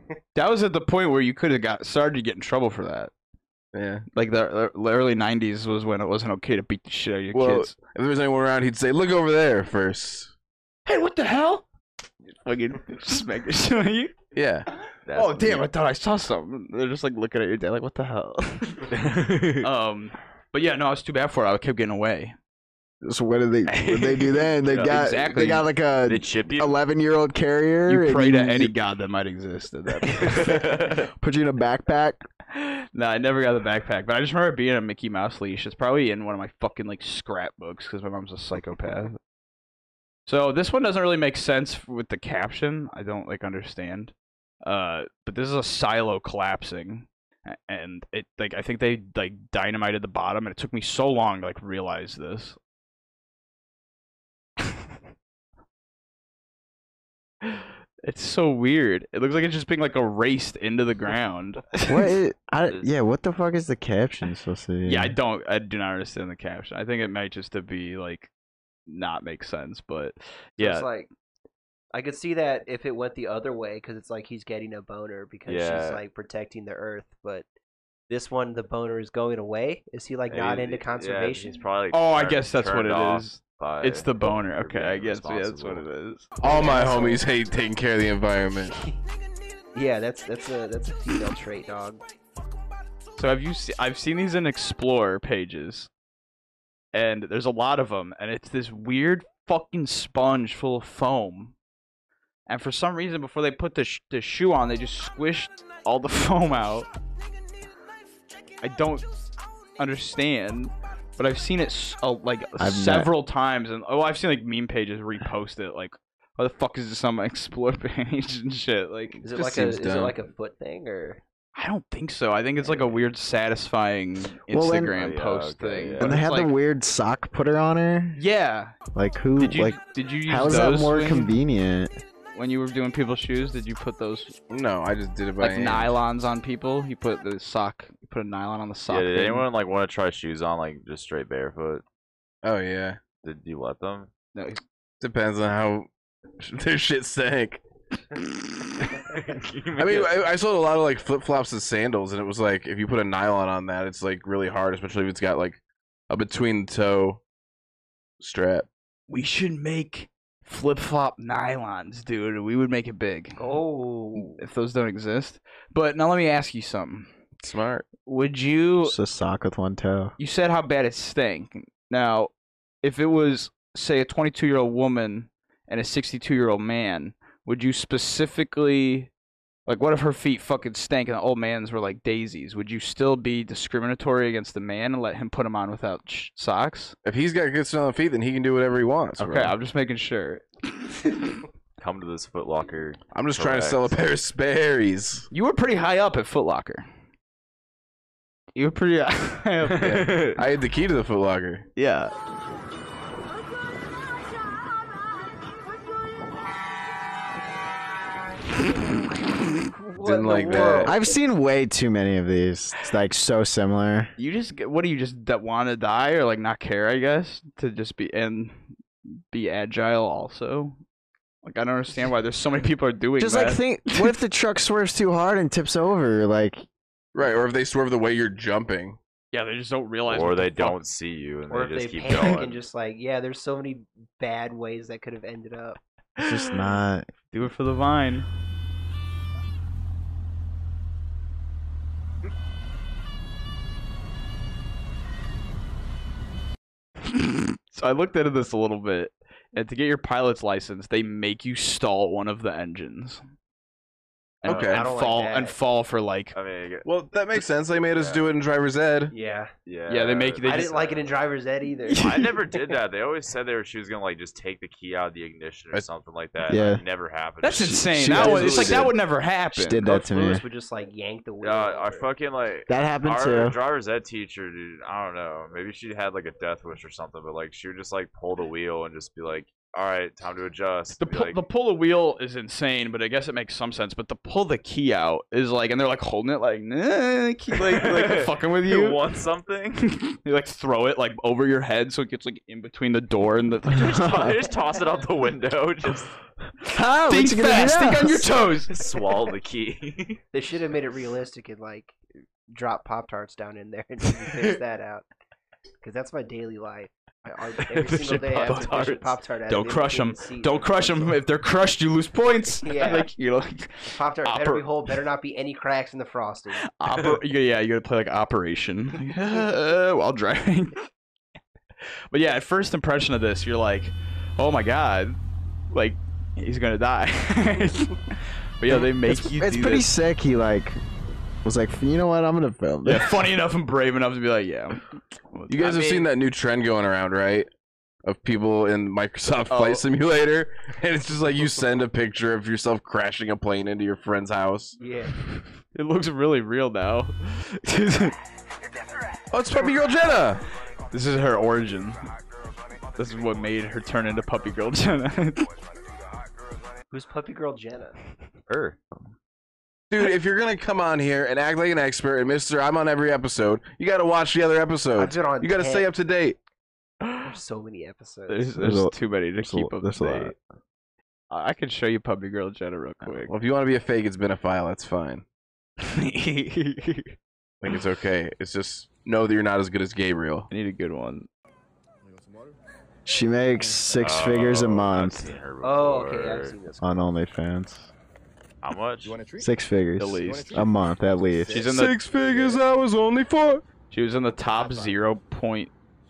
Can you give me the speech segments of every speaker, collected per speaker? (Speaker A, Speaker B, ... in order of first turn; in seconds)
Speaker A: 0.3-3.1, 4.1-7.7, 10.8-11.6, 12.2-14.1, 15.1-18.9, 19.6-22.4, 23.7-25.6, 27.9-30.7, 32.5-39.2, 40.3-52.6, 57.4-62.1, 64.8-68.3, 68.9-70.9, 81.9-86.3, 93.2-95.9, 96.9-101.5, 102.5-106.9, 108.6-109.1, 109.8-119.2, 121.5-126.5, 128.2-128.8, 129.4-131.3, 132.3-134.4, 135.4-139.4, 144.3-144.6, 159.1-163.4, 164.1-167.1, 168.1-168.9, 170.2-179.1, 179.7-186.9, 189.2-190.5, 191.0-191.3, 195.3-196.8, 198.5-200.1, 201.8-202.1, 214.2-218.6, 219.3-220.8, 221.4-224.1, 229.3-230.8, 236.2-236.5, 237.3-238.3, 247.2-253.2, 254.4-256.3, 259.9-260.7, 261.9-262.3, 267.4-270.0, 281.0-289.0, 290.0-294.0, 297.0-298.7, 307.9-314.6, 316.6-320.8, 322.1-325.2, 325.7-329.9, 332.8-336.1, 339.5-339.8, 345.3-348.1, 350.9-352.0, 353.0-355.5, 368.3-370.4, 371.3-373.3, 375.8-377.1, 380.5-381.3, 390.0-390.7, 391.4-392.0, 393.9-395.7
Speaker B: 3.7-4.0, 7.3-10.3, 14.3-14.7, 86.4-88.8, 119.3-120.2, 134.5-136.0, 142.4-143.0, 145.0-145.9, 146.4-147.6, 149.8-157.2, 158.2-158.7, 167.4-167.8, 187.0-189.5, 193.1-195.3, 199.8-201.7, 209.9-210.9, 227.1-229.0, 254.4-254.8, 256.8-259.1, 335.5-337.5, 338.0-344.8, 349.3-350.4, 359.9-366.4, 373.2-375.2, 377.6-380.5, 391.6-393.6
Speaker C: 15.1-15.7, 18.9-19.7, 26.1-26.8, 30.5-31.0, 62.7-62.9, 75.5-76.0, 80.3-85.8, 125.0-126.2, 138.9-141.8, 143.2-144.1, 149.0-150.2, 191.8-194.0, 199.7-200.4, 230.1-232.6, 254.4-254.8, 256.3-258.2, 259.6-261.1, 262.0-268.8, 271.4-281.4, 287.7-289.8, 293.7-296.1, 298.7-300.2, 358.5-358.8, 383.9-386.6, 388.6-389.2
Speaker D: 23.0-28.7, 31.2-32.2, 61.9-65.1, 112.6-113.1, 124.5-124.9, 126.0-128.2, 128.9-132.0, 168.8-170.1, 210.8-214.1, 223.2-226.6, 236.2-237.1, 266.5-266.8, 267.4-269.0, 269.5-270.4, 272.7-273.6, 296.7-298.4, 328.7-330.8, 331.4-333.3, 368.6-370.3, 383.1-385.3, 386.8-387.9, 389.4-391.6
Speaker E: 70.6-71.1, 71.9-77.5, 78.1-81.6, 86.4-87.2, 89.7-92.0, 119.2-121.2, 163.4-164.4, 209.8-211.1, 231.5-235.8, 254.7-255.6, 259.1-259.5, 260.4-262.2, 269.8-272.1, 300.3-305.1, 305.8-311.2, 312.6-313.1, 313.9-316.6, 344.8-345.1, 356.9-358.0, 364.9-365.9, 367.2-368.5, 385.6-387.0